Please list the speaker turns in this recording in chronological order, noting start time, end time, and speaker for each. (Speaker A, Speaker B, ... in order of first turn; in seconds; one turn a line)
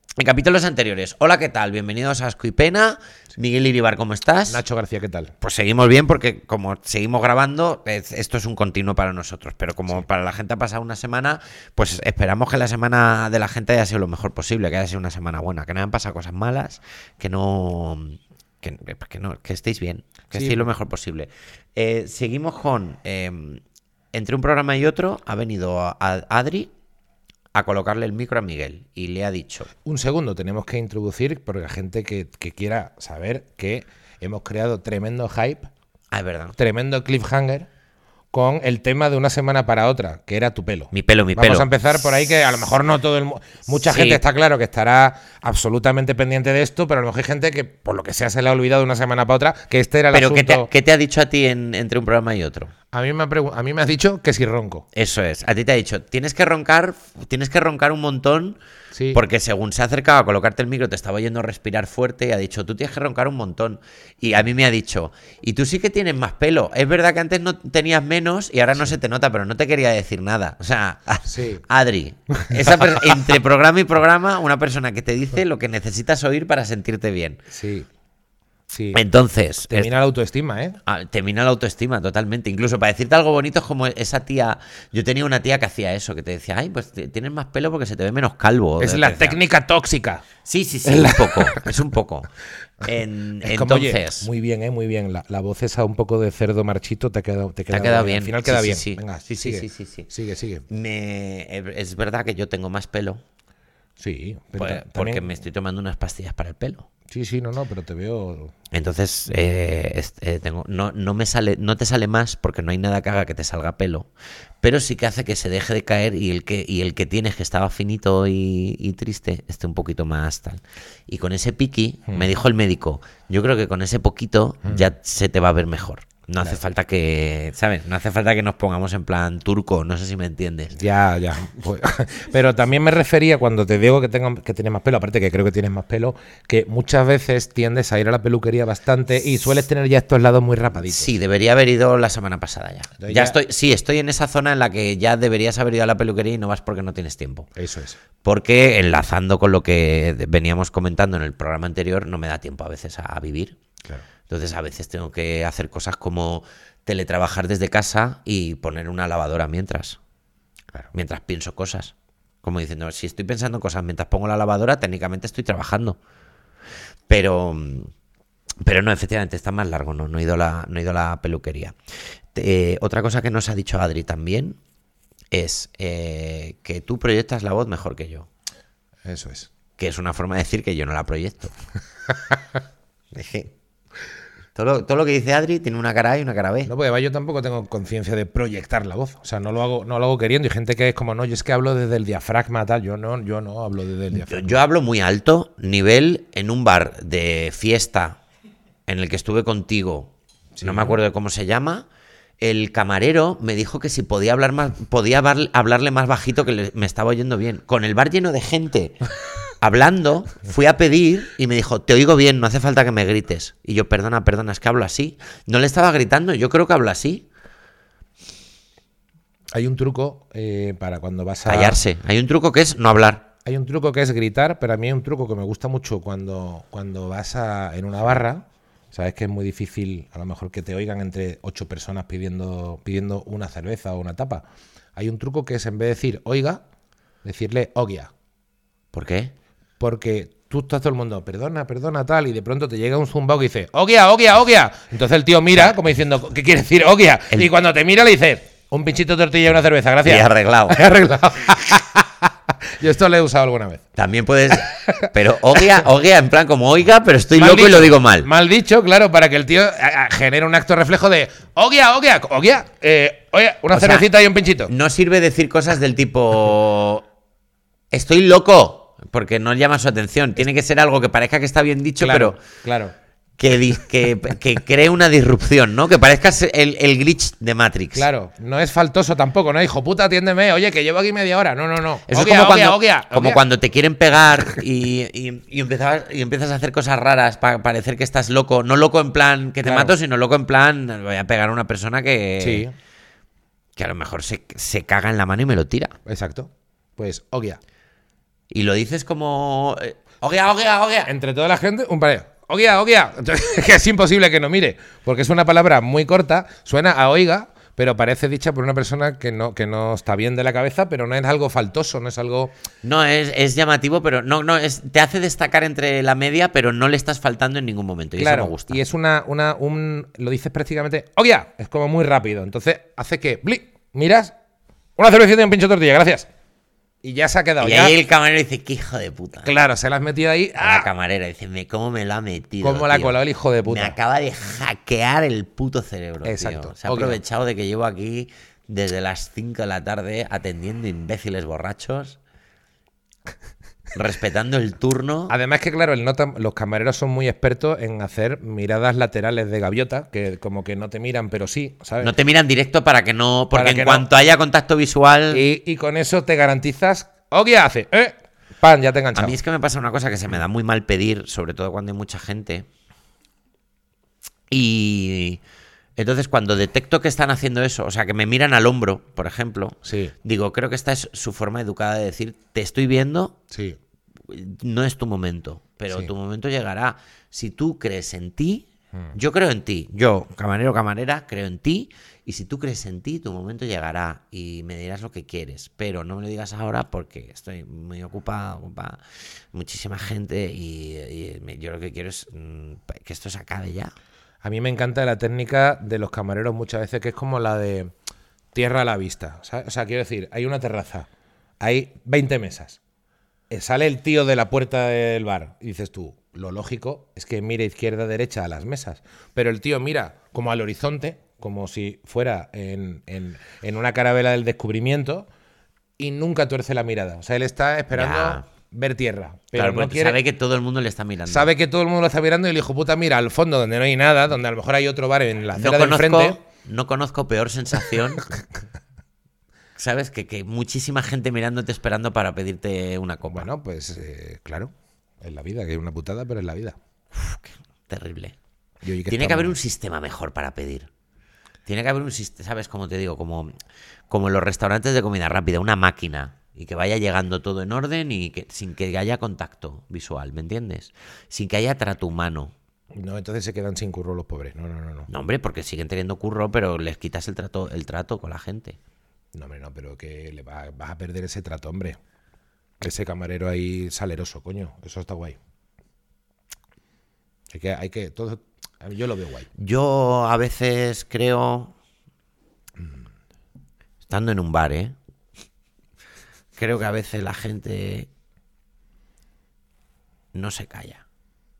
Speaker A: 0.2-4.6
Speaker B: 4.5-5.3
Speaker A: 5.4-23.6
Speaker B: 20.3-20.7
Speaker A: 24.1-26.7
Speaker A: 27.5-29.7
Speaker B: 29.9-35.7
Speaker A: 36.1-36.5
Speaker B: 36.6-37.7
Speaker B: 38.3-50.7
Speaker A: 40.9-41.7
Speaker A: 43.9-44.2
Speaker A: 50.1-52.7
Speaker B: 52.9-54.9
Speaker A: 54.9-58.6
Speaker B: 58.9-59.2
Speaker A: 59.1-77.4
Speaker B: 71.3-71.6
Speaker B: 72.3-73.1
Speaker B: 77.5-77.9
Speaker B: 78.7-79.0
Speaker A: 78.9-79.9
Speaker B: 79.7-80.8
Speaker A: 80.9-89.4
Speaker B: 88.8-90.2
Speaker A: 90.4-92.3
Speaker B: 90.8-91.8
Speaker A: 92.8-94.3
Speaker B: 93.4-100.7
Speaker A: 97.7-100.1
Speaker A: 100.7-103.2
Speaker B: 104.0-105.3
Speaker A: 104.6-106.9
Speaker B: 107.1-108.5
Speaker A: 108.7-114.1
Speaker A: 114.6-130.8
Speaker B: 130.8-141.1
Speaker A: 140.9-147.5
Speaker B: 143.0-143.4
Speaker B: 147.6-148.0
Speaker A: 148.2-153.6
Speaker A: 154.3-160.0
Speaker A: 160.9-166.0
Speaker A: 167.1-167.9
Speaker A: 168.6-171.8
Speaker A: 172.3-174.6
Speaker A: 175.3-178.3
Speaker B: 179.1-179.5
Speaker A: 179.8-181.5
Speaker A: 183.1-183.5
Speaker A: 184.6-186.7
Speaker B: 186.7-194.6
Speaker A: 194.1-198.2
Speaker A: 198.9-201.9
Speaker B: 200.6-201.0
Speaker A: 202.4-209.0
Speaker A: 209.6-217.3
Speaker B: 219.5-221.8
Speaker A: 221.5-223.3
Speaker B: 223.4-234.4
Speaker B: 235.0-236.6
Speaker B: 237.2-238.1
Speaker A: 238.9-239.3
Speaker B: 239.8-253.8
Speaker A: 250.0-250.8
Speaker A: 254.0-258.3
Speaker B: 254.6-255.1
Speaker B: 257.4-264.7
Speaker A: 263.7-264.1
Speaker A: 264.7-267.1
Speaker A: 267.9-272.4
Speaker B: 272.0-272.9
Speaker A: 273.4-278.1
Speaker B: 277.9-283.4
Speaker A: 282.1-292.6
Speaker B: 289.6-289.9
Speaker B: 292.4-292.7
Speaker A: 293.8-296.0
Speaker B: 296.1-297.6
Speaker A: 298.5-301.1
Speaker B: 301.1-312.5
Speaker A: 312.8-318.8
Speaker B: 318.2-324.3
Speaker B: 325.0-326.3
Speaker B: 327.0-328.0
Speaker A: 327.6-329.5
Speaker B: 329.4-330.9
Speaker A: 330.6-342.2
Speaker B: 332.6-334.0
Speaker B: 336.2-337.2
Speaker A: 343.9-345.3
Speaker B: 345.3-352.1
Speaker A: 352.0-355.4
Speaker B: 353.5-354.1
Speaker B: 355.3-359.4
Speaker A: 359.1-362.7
Speaker A: 364.5-365.4
Speaker A: 366.0-373.4
Speaker B: 369.9-370.1
Speaker B: 373.5-373.8
Speaker A: 374.3-389.0
Speaker A: 389.5-393.9
Speaker B: 394.4-397.9
Speaker B: 398.5-401.1
Speaker B: 401.6-402.8
Speaker B: 403.5-415.3
Speaker B: 416.0-420.2
Speaker A: 417.9-418.4
Speaker A: 419.6-421.5
Speaker B: 421.3-426.4
Speaker A: 425.6-428.2
Speaker A: 429.8-433.5
Speaker B: 433.3-436.8
Speaker A: 437.1-438.4
Speaker B: 438.8-439.6
Speaker A: 439.1-440.9
Speaker A: 441.7-443.5
Speaker A: 444.1-452.5
Speaker B: 452.9-455.1
Speaker A: 455.1-458.8
Speaker B: 459.3-462.0
Speaker B: 462.8-465.4
Speaker B: 467.5-469.5
Speaker A: 469.6-471.7
Speaker A: 474.1-475.0
Speaker A: 476.6-478.1
Speaker A: 480.3-481.0